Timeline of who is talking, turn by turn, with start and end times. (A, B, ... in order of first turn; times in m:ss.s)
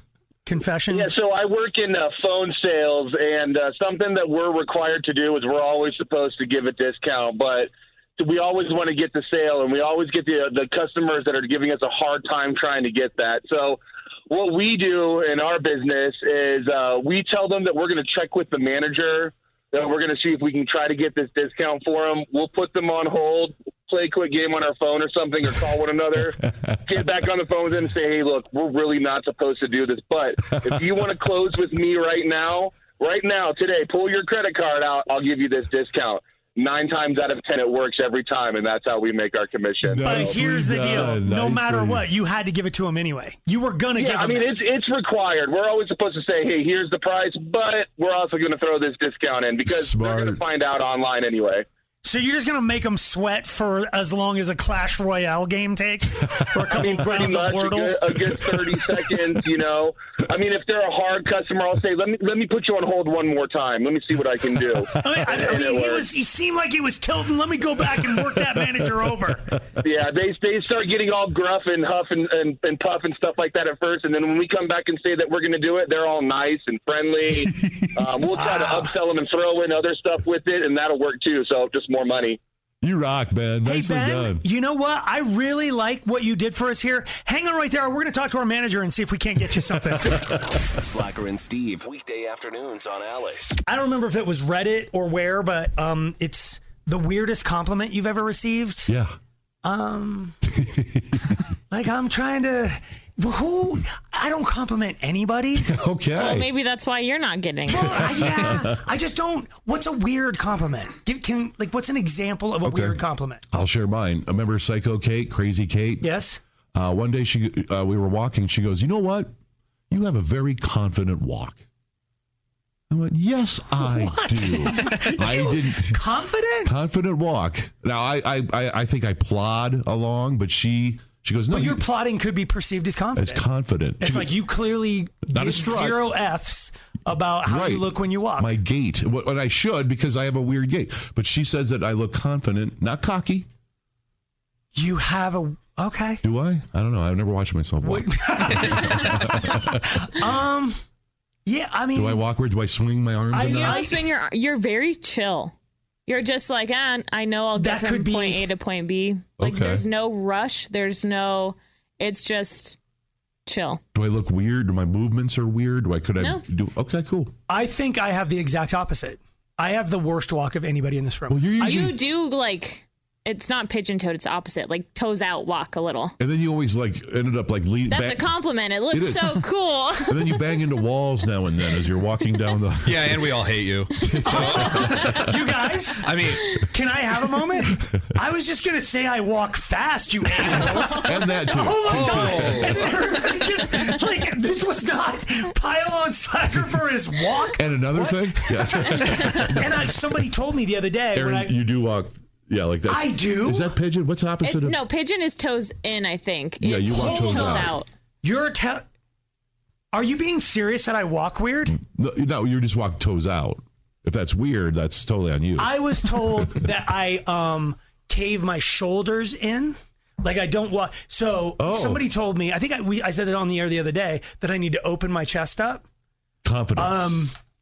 0:00.4-0:01.1 A
0:00.9-0:40.3 B
0:26.4-0:26.8 C
0:39.8-0:42.1 C
0:40.0-0:44.5 A
0:44.0-0:51.6 B
0:49.6-0:50.4 C
0:52.0-0:58.4 A
0:56.7-0:57.0 C
0:56.7-1:06.1 B
1:04.9-1:09.5 A
1:08.0-1:08.4 C
1:09.8-1:22.4 B
1:17.4-1:18.0 C
1:18.3-1:19.0 A
1:22.8-1:24.4 C
1:23.6-1:30.4 A
1:30.8-1:33.6 D
1:33.7-1:38.9 A
1:38.9-1:39.2 C
1:39.6-1:40.4 A
1:40.5-1:41.2 C
1:41.7-1:45.7 A
1:45.6-1:46.5 C
1:46.2-1:48.2 E
1:47.7-1:53.4 A
1:47.9-1:48.8 C
1:52.6-1:53.0 C
1:53.5-1:56.1 C
1:56.0-1:56.4 A
1:56.7-1:59.3 C
1:59.9-2:01.6 C
2:02.9-2:06.0 C
2:03.7-2:06.7 A
2:06.6-2:11.8 C
2:11.5-2:13.4 A
2:13.2-2:14.4 C
2:14.0-2:18.5 A
2:15.3-2:16.1 C
2:17.5-2:23.5 C
2:24.8-2:26.2 A
2:26.2-2:29.8 C
2:27.8-2:30.8 A
2:31.5-2:32.2 A
2:32.0-2:33.9 C
2:33.3-2:34.0 A
2:33.5-2:35.5 E
2:36.1-2:42.8 E
2:37.6-2:38.5 A
2:39.4-2:39.8 C
2:43.5-2:43.8 E
2:43.9-2:47.3 C
2:47.5-2:51.9 A
2:51.3-2:52.0 C
2:51.6-2:56.2 E
2:56.2-2:58.3 C
2:57.9-3:00.3 E
2:58.9-2:59.4 C
3:00.0-3:03.3 C
3:02.8-3:04.9 F
3:04.0-3:05.4 C
3:04.2-3:06.1 A
3:06.0-3:06.6 F
3:06.6-3:21.6 A
3:10.4-3:12.9 C
3:11.9-3:12.9 F
3:17.6-3:20.0 C
3:21.1-3:24.8 C
3:22.9-3:23.7 A
3:24.4-3:27.9 E
3:26.6-3:27.8 C
3:27.0-3:28.8 A
3:29.9-3:31.8 A
3:31.7-3:36.5 C
3:35.6-3:45.8 A
3:41.6-3:42.0 C
3:46.4-3:47.3 C
3:46.8-3:47.4 A